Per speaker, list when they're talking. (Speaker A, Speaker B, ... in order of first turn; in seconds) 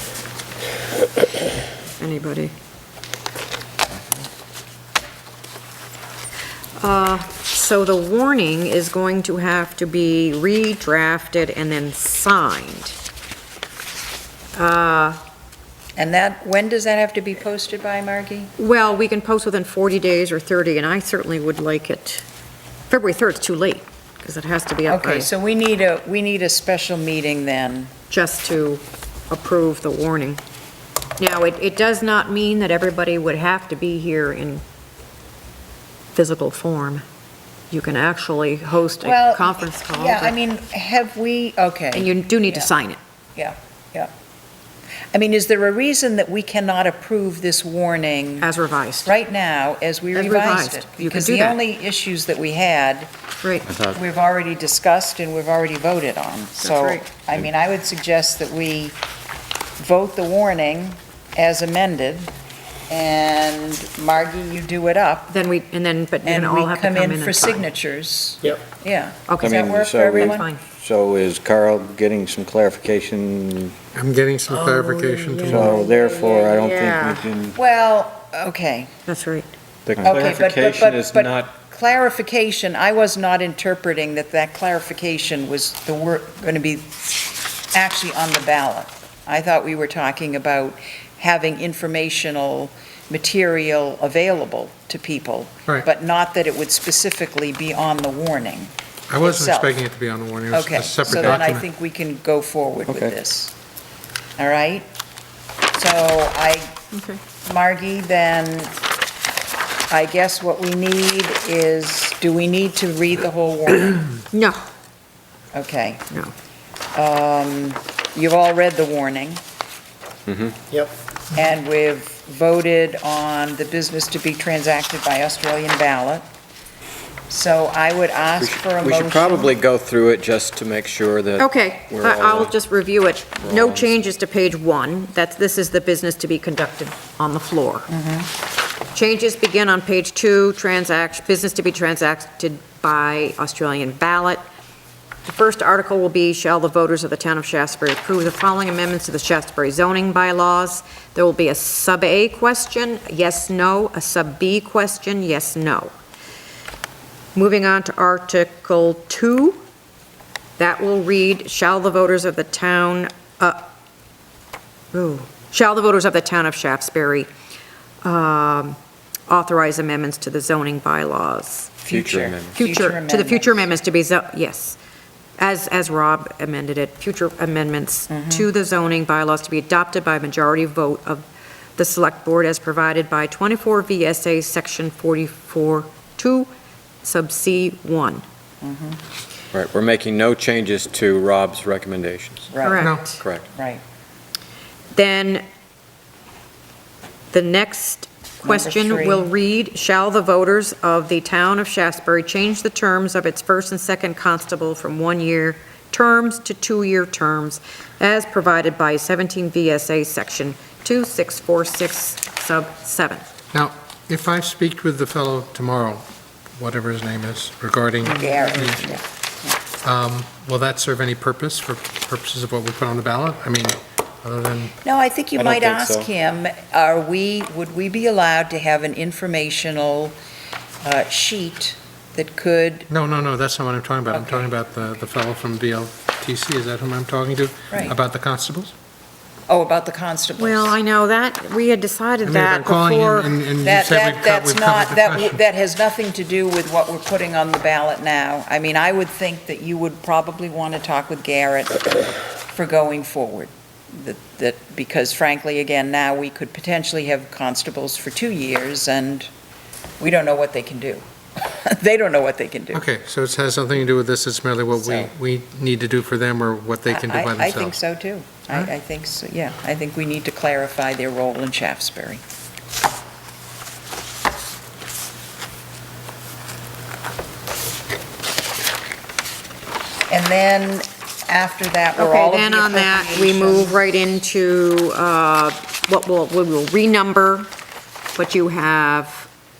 Speaker A: 2.0-2.5, 6.8-13.0, 14.6-15.2, 18.6-22.2, 22.9-25.3, 28.1-30.4, 31.2-34.6, 36.1-37.0, 37.7-40.3, 41.9-43.0, 48.4-49.1, 50.1-51.6, 56.6-57.0, 65.3-67.7, 69.3-69.6, 70.2-70.6, 74.5-77.3, 79.1-79.5, 114.3-114.6, 131.4-137.9, 138.9-144.4, 145.2-155.9, 157.3-159.6, 160.6-163.7, 164.9-167.3, 168.0-168.8, 169.3-171.8, 172.5-174.8, 175.4-181.2, 181.8-186.5, 187.0-188.2, 192.6-193.2, 194.9-195.4, 197.3-213.3, 240.4-243.3, 281.9-287.5, 288.1-289.3
Speaker B: 16.0-18.5, 24.9-27.9, 39.0-42.7, 43.4-44.1, 45.1-48.5, 49.0-53.1, 53.8-59.0, 59.8-62.3, 62.9-65.3, 66.2-70.4, 77.5-78.9, 80.0-86.9, 87.7-99.7, 100.5-103.5, 104.4-104.9, 105.7-106.8, 107.4-108.7, 109.9-114.1, 115.5-116.0, 116.9-119.4, 121.3-126.2, 127.3-129.6, 137.9-138.3, 171.8-173.7, 178.1-178.4, 188.6-189.0, 192.5-193.0, 193.5-193.8, 198.4-199.3, 218.0-219.6, 224.8-230.2, 230.8-232.9, 234.1-234.5, 237.7-238.0, 239.5-240.8, 243.6-251.9, 252.5-259.3, 260.0-262.8, 264.8-265.1, 266.9-272.2, 280.1-283.8
Speaker C: 53.7-54.0, 69.4-73.8, 75.4-77.6, 79.8-81.5, 102.9-103.1, 120.3-120.6, 128.4-132.5, 133.4-133.9, 171.9-172.6, 189.5-192.5, 193.2-193.4, 225.3-226.1
Speaker D: 73.9-75.8, 99.1-101.6, 192.8-193.1, 213.5-219.0, 219.8-224.7, 232.9-238.7, 242.2-245.4, 262.7-267.8